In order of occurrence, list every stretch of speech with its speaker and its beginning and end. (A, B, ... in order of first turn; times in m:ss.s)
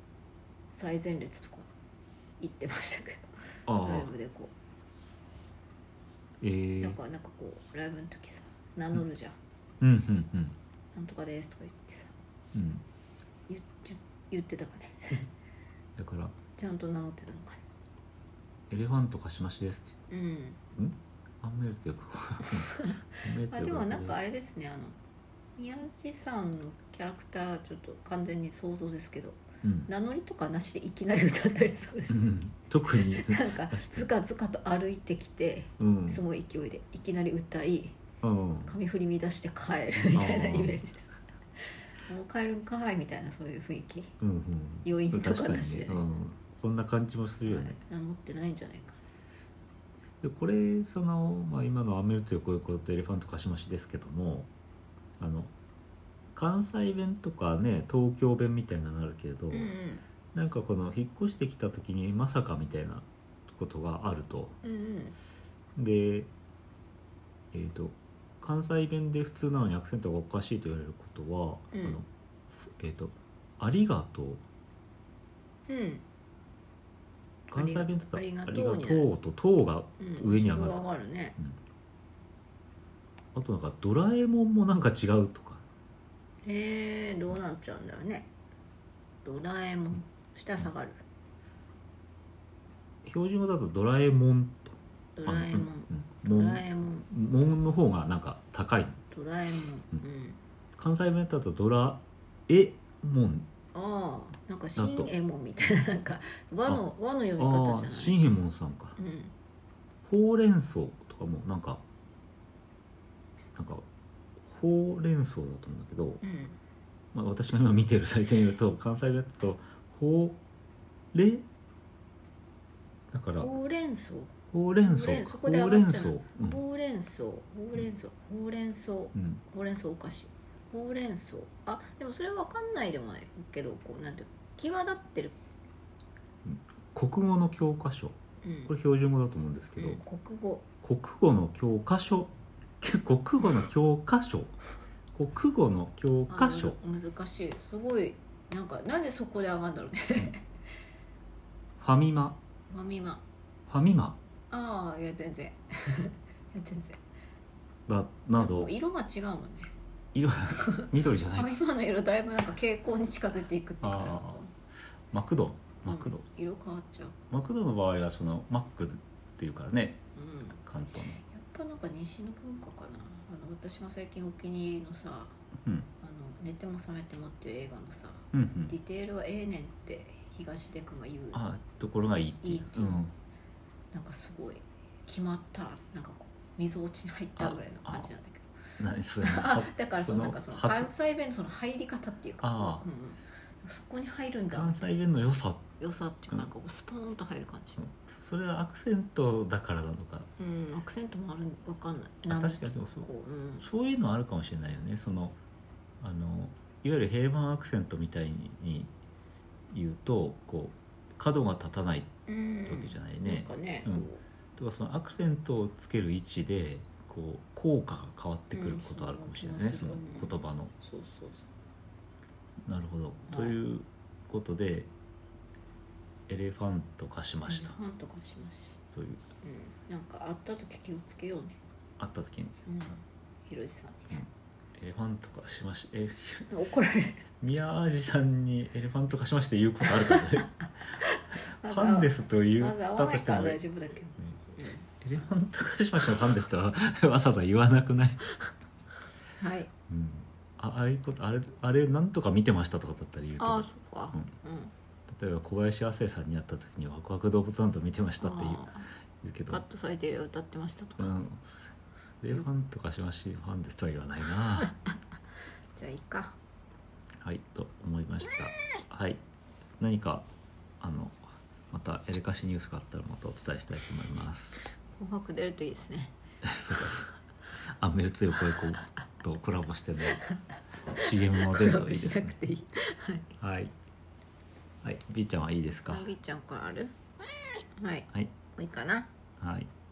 0:00.7-0:01.7 A
0:02.4-0:04.5 A
0:03.7-0:04.1 B
0:06.4-0:07.0 B
0:06.8-0:09.4 A
0:09.8-0:10.6 B
0:10.9-0:12.2 A
0:12.5-0:12.8 B
0:13.5-0:15.3 A
0:16.0-0:16.4 B
0:16.6-0:17.6 A
0:18.7-0:20.0 B
0:20.1-0:20.6 A
0:20.8-0:24.2 B
0:22.6-0:25.0 A
0:25.6-0:32.3 A
0:29.6-0:29.9 B
0:32.1-0:34.1 B
0:32.9-0:38.0 A
0:35.8-0:36.2 B
0:38.2-0:38.8 B
0:38.7-0:44.2 A
0:40.1-0:40.8 B
0:44.2-0:47.8 B
0:44.8-0:46.1 A
0:47.5-0:49.0 A
0:50.2-0:54.5 B
0:55.2-0:55.5 B
0:56.3-0:59.7 B
0:59.5-1:00.0 A
1:00.3-1:04.6 B
1:04.6-1:05.2 A
1:05.8-1:06.3 B
1:07.5-1:14.4 B
1:11.7-1:12.0 A
1:15.7-1:16.0 A
1:17.5-1:20.8 B
1:17.5-1:19.1 A
1:20.0-1:21.4 A
1:23.4-1:25.6 B
1:26.4-1:28.3 A
1:29.2-1:31.0 A
1:33.0-1:39.0 B
1:35.2-1:37.1 A
1:39.1-1:40.4 A
1:40.8-1:43.5 B
1:43.7-1:48.2 A
1:44.8-1:45.1 B
1:47.4-1:49.0 B
1:49.0-1:49.3 A
1:50.0-1:51.8 B
1:53.6-1:53.8 B
1:54.4-1:56.2 B
1:56.2-1:56.6 A
1:57.1-2:00.4 B
2:01.1-2:01.4 B
2:03.1-2:03.5 B
2:03.4-2:04.3 A
2:04.5-2:06.6 B
2:04.9-2:15.4 A
2:09.2-2:09.4 B
2:16.4-2:20.0 B
2:18.4-2:18.7 A
2:19.8-2:20.7 A
2:20.8-2:24.6 B
2:25.2-2:26.8 B
2:26.3-2:30.5 A
2:31.8-2:32.4 B
2:32.7-2:33.2 A
2:33.7-2:34.2 B
2:34.5-2:37.0 A
2:37.9-2:38.7 B
2:38.4-2:39.7 A
2:40.2-2:41.5 B
2:40.6-2:44.5 A
2:43.8-2:44.4 B
2:45.1-2:46.2 B
2:45.8-2:47.2 A
2:47.3-2:50.0 B
2:50.2-2:50.6 A
2:50.6-2:51.2 B
2:51.2-2:55.4 A
2:55.6-2:55.9 B
2:56.0-3:01.4 A
2:58.3-2:58.7 B
3:01.3-3:03.2 B
3:02.4-3:03.0 A
3:03.9-3:08.5 A
3:07.4-3:08.1 B
3:08.8-3:10.9 B
3:09.2-3:14.9 A
3:12.4-3:12.8 B
3:14.5-3:15.7 B
3:15.8-3:17.8 A
3:17.8-3:20.3 B
3:20.4-3:23.7 A
3:22.3-3:23.1 B
3:23.6-3:25.4 B
3:26.0-3:28.9 B
3:29.7-3:32.1 B
3:32.3-3:34.2 A
3:32.7-3:40.7 B
3:38.5-3:41.5 A
3:42.7-3:44.9 B
3:43.3-3:43.6 A
3:46.3-3:47.8 B
3:47.5-3:48.8 A
3:48.9-3:49.2 B
3:49.4-3:51.6 A
3:52.0-3:52.7 B
3:52.7-3:54.2 A
3:54.1-3:56.5 B
3:56.5-3:57.3 A
3:57.4-4:00.7 B
3:59.8-4:04.9 A
4:01.6-4:03.6 B
4:04.2-4:08.3 B
4:09.4-4:09.7 A
4:09.9-4:14.3 B
4:13.4-4:14.7 A
4:15.1-4:18.7 B
4:18.2-4:18.9 A
4:19.2-4:19.6 B
4:19.5-4:21.2 A
4:21.0-4:21.4 B
4:22.2-4:24.7 B
4:25.8-4:26.4 A
4:27.2-4:29.2 B
4:29.8-4:30.3 B
4:30.8-4:34.6 B
4:34.9-4:36.1 A
4:36.4-4:37.1 B
4:37.8-4:40.2 B
4:40.9-4:42.4 B
4:41.2-4:43.3 A
4:43.4-4:43.7 B
4:44.8-4:46.1 B
4:45.9-4:46.9 A
4:47.8-4:49.1 A
4:49.4-4:49.7 B